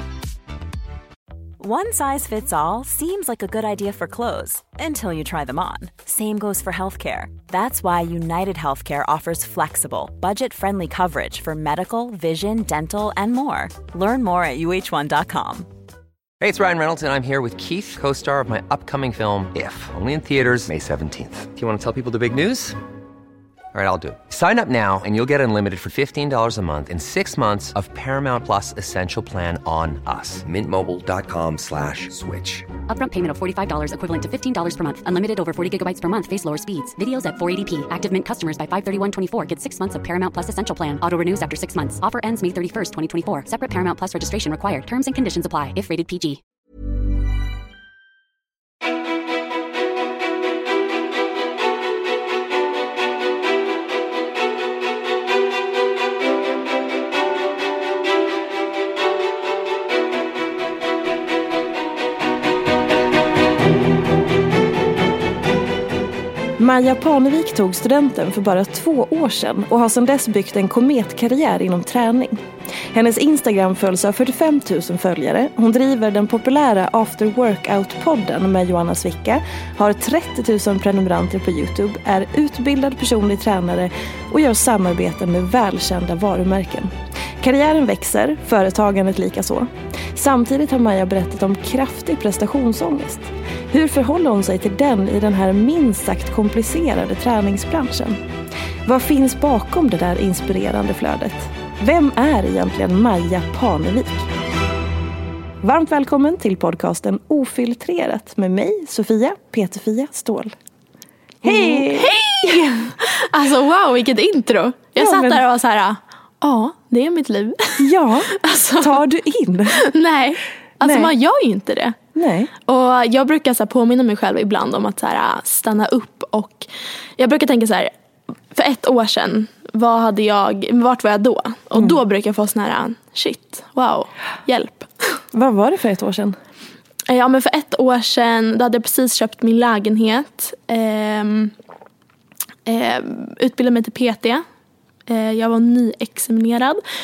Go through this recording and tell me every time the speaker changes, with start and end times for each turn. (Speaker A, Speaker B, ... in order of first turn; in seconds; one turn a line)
Speaker A: 1.6-15.7
Speaker B: 16.4-22.8
Speaker B: 23.7-32.7
Speaker C: 32.9-46.4
Speaker D: 66.6-98.2
Speaker D: 98.8-104.3
Speaker D: 105.6-110.5
Speaker D: 111.4-112.7
Speaker E: 111.4-119.0
Speaker D: 115.0-115.4
Speaker D: 117.8-119.8
Speaker E: 119.7-122.0
Speaker D: 120.8-121.1
Speaker D: 122.2-122.5
Speaker E: 122.7-126.7
Speaker E: 127.2-127.9
Speaker E: 128.5-134.9
Speaker D: 135.3-136.4
Speaker E: 137.1-141.5
Speaker E: 142.7-144.4
Speaker E: 145.1-146.8